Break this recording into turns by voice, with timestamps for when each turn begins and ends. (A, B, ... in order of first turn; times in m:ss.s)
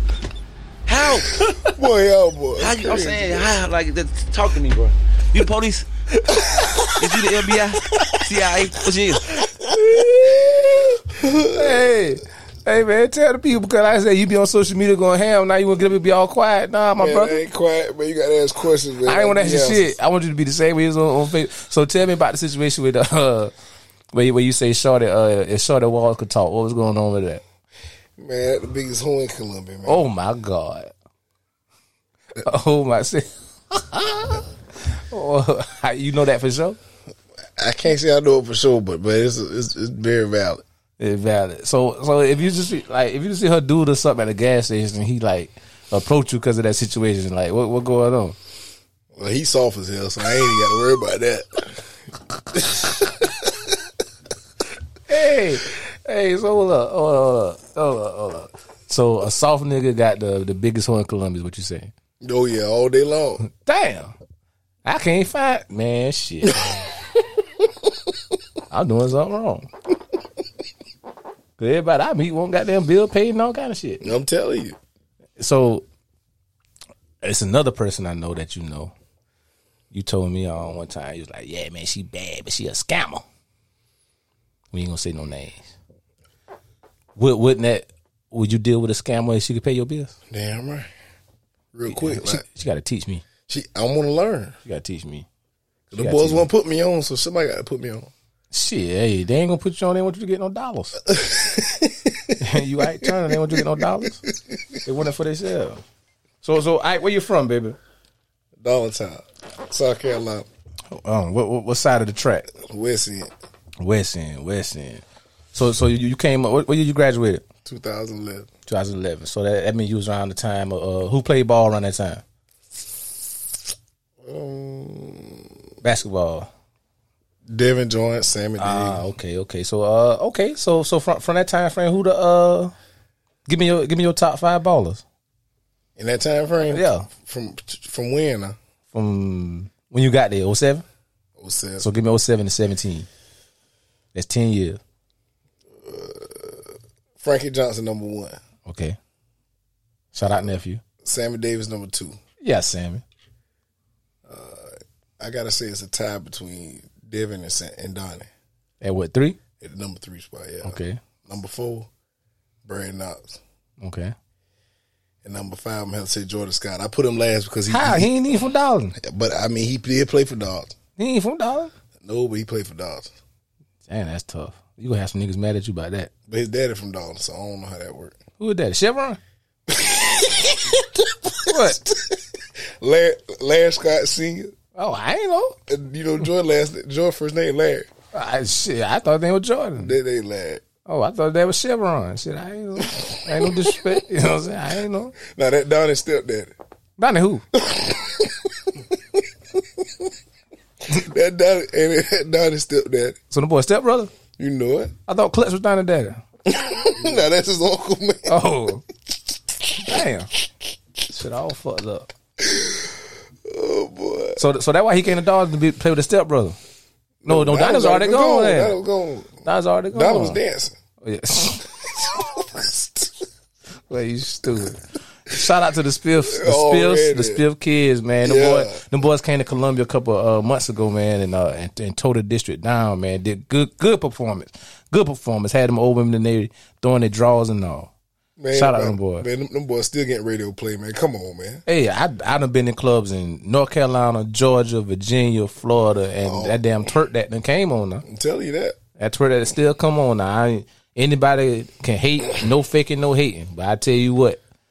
0:00.8-0:01.6 A
0:01.6-0:03.5 B
0:02.6-0:05.8 A
0:06.1-0:07.2 B
0:06.9-0:09.4 A
0:07.9-0:08.2 B
0:09.4-0:11.8 B
0:10.0-0:10.3 C
0:11.5-0:17.4 C
0:17.0-0:19.9 B
0:19.0-0:23.5 C
0:24.1-0:27.4 C
0:28.2-0:30.0 B
0:29.8-0:30.9 C
0:32.3-0:36.8 C
0:37.6-0:40.6 B
0:41.0-0:48.4 C
0:49.1-0:51.9 B
0:52.5-0:53.8 B
0:55.1-1:01.9 C
1:02.2-1:03.4 B
1:03.4-1:04.1 C
1:04.8-1:06.7 C
1:08.7-1:09.7 C
1:11.6-1:14.1 C
1:14.0-1:14.8 B
1:15.4-1:15.8 C
1:17.2-1:18.9 C
1:19.9-1:23.2 C
1:24.7-1:25.6 C
1:27.2-1:30.1 C
1:30.3-1:30.9 B
1:31.7-1:32.4 B
1:31.8-1:33.2 C
1:33.5-1:34.6 B
1:34.6-1:35.3 C
1:35.9-1:38.1 B
1:35.9-1:36.5 C
1:38.5-1:41.0 C
1:41.0-1:44.6 B
1:42.4-1:44.2 C
1:44.8-1:45.8 C
1:46.4-1:47.8 C
1:48.6-1:50.5 B
1:50.9-1:52.5 C
1:52.6-1:53.3 B
1:53.8-1:57.4 C
1:57.6-1:58.5 B
1:58.7-2:02.2 C
2:04.2-2:05.5 B
2:05.8-2:06.5 C
2:07.5-2:09.0 B
2:08.6-2:12.7 C
2:13.5-2:15.0 C
2:16.0-2:18.6 B
2:16.6-2:17.1 C
2:18.9-2:20.8 C
2:21.4-2:21.9 B
2:21.8-2:23.1 C
2:24.1-2:24.8 C
2:25.8-2:28.4 B
2:28.6-2:29.0 C
2:30.1-2:30.8 C
2:31.0-2:32.2 B
2:32.4-2:33.0 C
2:34.2-2:38.3 B
2:38.8-2:39.4 C
2:39.6-2:41.9 B
2:40.6-2:41.0 C
2:42.6-2:43.4 B
2:43.8-2:44.1 C
2:45.2-2:48.2 B
2:47.7-2:48.9 C
2:49.0-2:50.8 B
2:51.0-2:51.7 C
2:52.0-2:53.1 B
2:53.9-2:56.1 C
2:56.3-2:58.2 B
2:58.4-2:59.2 C
2:59.7-3:04.5 B
3:01.4-3:01.8 C
3:04.8-3:05.6 C
3:05.7-3:07.9 B
3:08.1-3:10.0 C
3:09.8-3:10.6 B
3:10.8-3:15.2 C
3:12.9-3:13.8 B
3:15.2-3:16.5 B
3:17.0-3:17.4 C
3:17.5-3:20.1 B
3:20.8-3:23.2 B
3:23.3-3:24.1 C
3:24.4-3:24.9 B
3:25.1-3:26.2 C
3:26.4-3:28.4 B
3:28.2-3:28.8 C
3:29.7-3:30.3 C
3:31.1-3:32.1 C
3:32.4-3:34.4 B
3:34.4-3:36.6 C
3:37.2-3:40.8 B
3:37.2-3:38.8 C
3:39.4-3:40.4 C
3:41.0-3:42.1 C
3:41.8-3:43.0 B
3:43.9-3:57.9 C
3:46.2-3:47.4 B
3:48.2-3:48.8 B
3:58.4-4:01.6 B
3:58.5-3:59.2 C
4:01.6-4:08.0 C
4:06.2-4:06.6 B
4:08.0-4:08.8 B
4:09.0-4:14.4 C